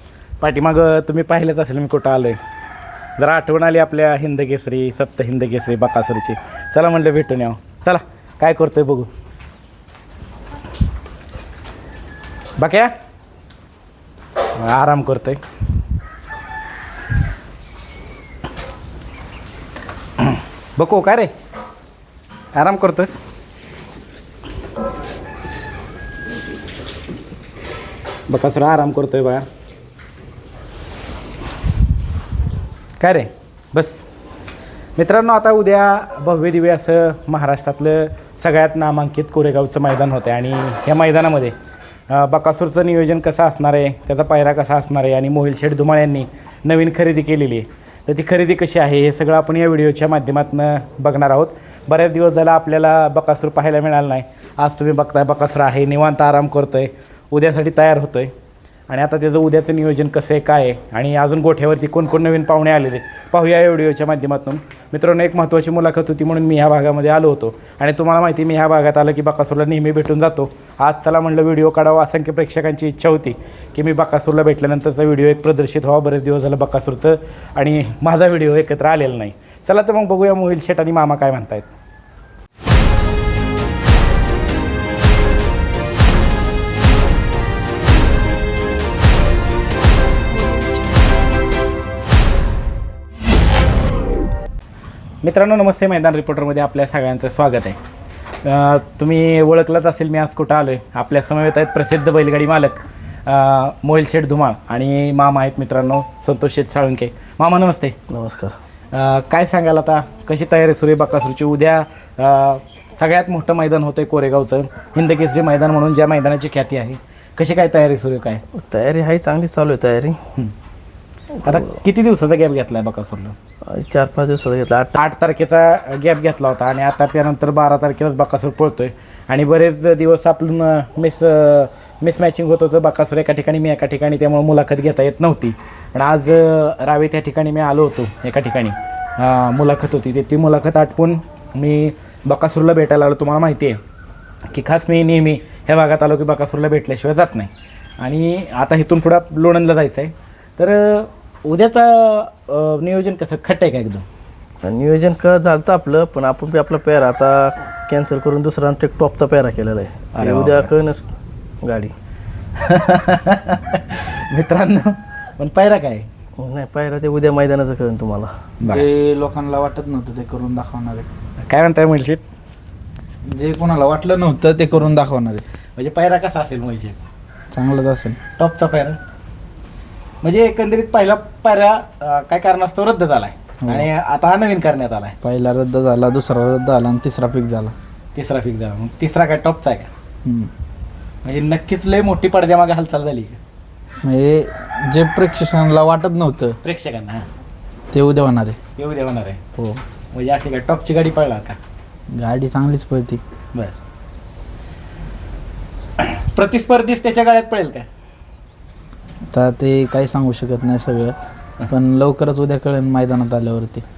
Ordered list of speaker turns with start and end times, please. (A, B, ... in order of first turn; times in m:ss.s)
0:00.4-0:02.4 A
0:03.2-0:09.1 A
0:12.6-0:12.9 A
0:14.6-0:15.4 A
0:20.2-0:21.3 A
0:22.6-0:23.2 A
0:28.3-0:29.4 A
0:33.0-0:34.1 A
0:35.0-0:41.5 A
0:42.1-0:58.3 A
0:58.9-1:21.7 A
1:35.2-1:37.8 A
1:38.4-1:48.0 A
1:48.1-1:48.6 B
1:48.9-1:58.4 A
1:58.6-2:00.2 B
2:01.4-2:03.4 A
2:03.6-2:05.0 B
2:04.9-2:23.8 A
2:24.5-2:34.0 A
2:34.6-2:41.0 B
2:40.1-2:40.7 A
2:41.6-2:41.9 B
2:42.6-2:46.1 A
2:46.4-2:48.3 B
2:48.6-2:48.9 A
2:48.7-2:51.1 C
2:51.5-2:52.2 A
2:53.3-2:55.4 C
2:55.8-2:57.0 A
2:57.5-2:58.2 C
2:58.4-2:59.0 A
3:00.2-3:05.2 A
3:03.6-3:03.9 C
3:05.2-3:07.7 C
3:08.2-3:09.9 A
3:10.2-3:10.5 C
3:11.2-3:13.4 A
3:14.0-3:16.6 C
3:16.6-3:17.2 A
3:17.9-3:18.6 C
3:18.8-3:19.4 A
3:19.6-3:19.8 C
3:20.1-3:21.6 A
3:22.1-3:23.2 C
3:26.0-3:27.9 A
3:29.3-3:31.1 C
3:31.7-3:33.8 C